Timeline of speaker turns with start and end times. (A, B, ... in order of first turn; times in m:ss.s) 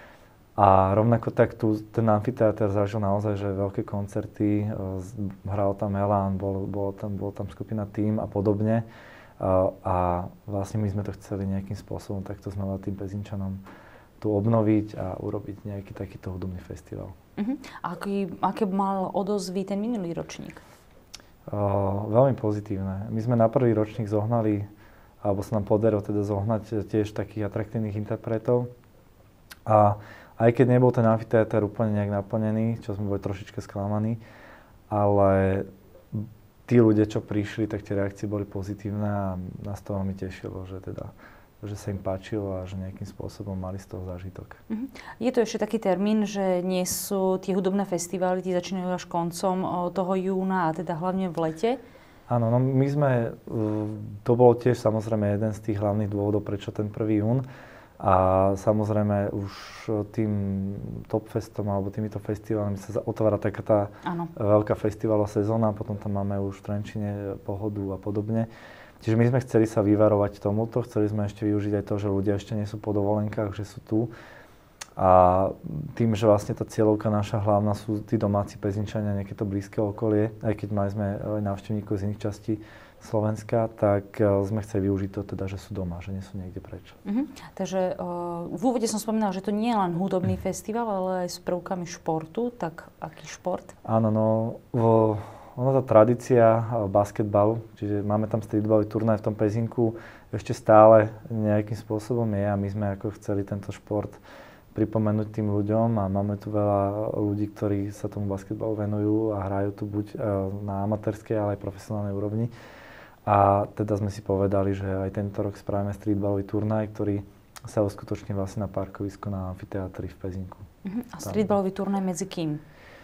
0:00.6-0:08.8 A
0:09.4-0:13.6 A
0:14.2-0:17.1 A
0:17.4-0:20.6 B
0:21.5-0:24.7 A
0:25.2-0:28.7 A
0:29.6-0:34.2 A
0:34.9-0:44.6 A
0:44.7-0:51.8 B
0:52.3-0:57.4 A
0:58.0-1:08.5 A
1:04.0-1:04.3 B
1:09.0-1:14.1 A
1:15.0-1:27.0 A
1:27.0-1:33.7 B
1:33.8-1:44.2 A
1:44.7-1:52.5 A
1:53.2-2:00.6 A
2:00.8-2:02.6 B
2:01.2-2:01.5 A